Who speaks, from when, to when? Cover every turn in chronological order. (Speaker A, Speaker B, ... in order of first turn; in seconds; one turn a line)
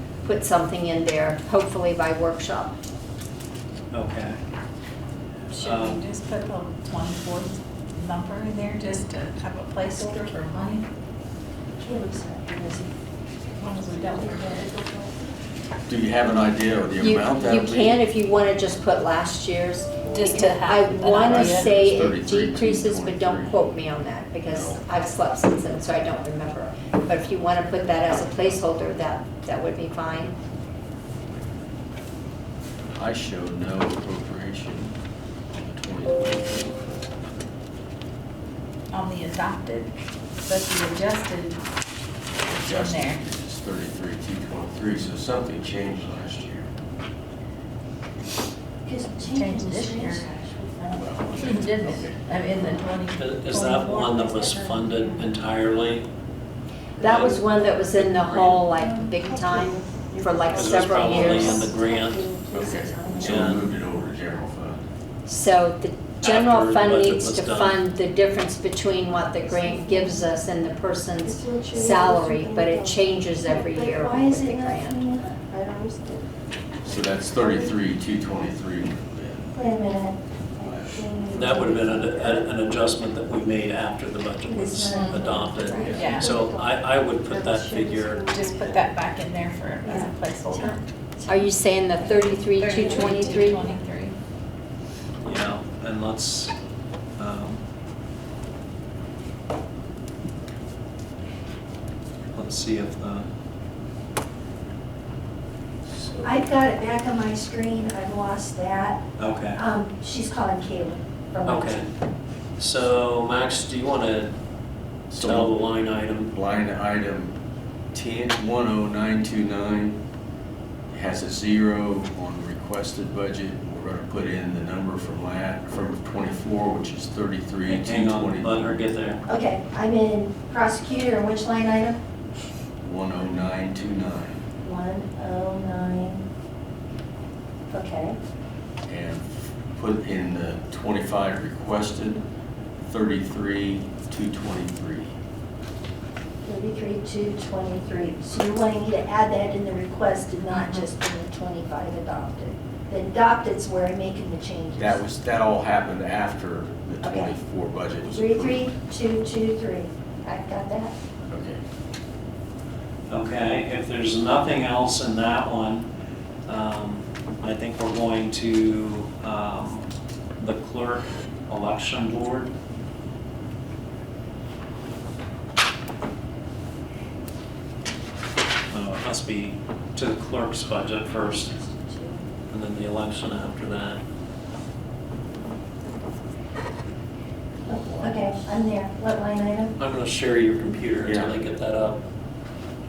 Speaker A: 0.2-2.8
Speaker B: 3.9-4.4
Speaker C: 5.5-10.9
Speaker B: 5.5-6.0
Speaker D: 9.8-10.3
Speaker D: 11.8-12.9
Speaker C: 13.6-14.6
Speaker D: 13.9-15.4
Speaker E: 15.9-18.0
Speaker A: 17.0-30.4
Speaker C: 20.1-21.7
Speaker E: 21.1-23.7
Speaker E: 24.5-24.8
Speaker E: 33.0-35.0
Speaker E: 35.5-37.2
Speaker C: 38.9-41.7
Speaker E: 42.4-46.7
Speaker C: 42.6-43.2
Speaker D: 48.8-51.5
Speaker C: 49.2-50.3
Speaker E: 50.9-52.2
Speaker C: 51.4-54.9
Speaker B: 53.1-56.1
Speaker D: 55.0-55.3
Speaker A: 57.0-61.7
Speaker B: 57.0-58.6
Speaker D: 58.6-63.8
Speaker B: 60.5-62.3
Speaker E: 62.5-64.8
Speaker B: 63.2-63.7
Speaker A: 65.2-75.0
Speaker B: 66.2-67.8
Speaker D: 69.4-70.3
Speaker D: 71.2-76.3
Speaker E: 76.8-79.6
Speaker D: 77.4-77.7
Speaker D: 79.5-82.7
Speaker E: 80.6-81.0
Speaker B: 81.3-88.3
Speaker D: 84.5-88.9
Speaker C: 84.9-85.3
Speaker C: 85.9-86.3
Speaker C: 88.2-90.8
Speaker D: 89.8-93.8
Speaker A: 91.3-93.6
Speaker C: 92.6-94.2
Speaker B: 95.2-96.5
Speaker B: 97.2-97.6
Speaker B: 102.3-103.3
Speaker E: 105.8-106.4
Speaker D: 106.2-109.0
Speaker B: 109.2-109.6
Speaker D: 109.6-111.8
Speaker B: 111.5-111.9
Speaker B: 112.6-114.3
Speaker B: 115.1-116.3
Speaker E: 115.1-115.6
Speaker E: 116.3-117.4
Speaker E: 117.9-120.0
Speaker E: 120.9-128.8
Speaker B: 127.7-129.2
Speaker D: 129.2-132.0
Speaker E: 132.8-134.4
Speaker D: 134.6-136.2
Speaker D: 137.7-138.2
Speaker E: 138.9-142.2
Speaker E: 142.8-145.1
Speaker D: 146.4-155.0
Speaker E: 154.8-158.7
Speaker D: 157.0-157.4
Speaker D: 158.1-161.0
Speaker E: 161.3-161.6
Speaker B: 163.1-165.9
Speaker B: 166.5-172.5
Speaker B: 178.7-181.5
Speaker D: 181.1-182.3
Speaker B: 182.5-184.0
Speaker D: 187.7-189.8
Speaker B: 189.8-192.0
Speaker E: 191.0-191.4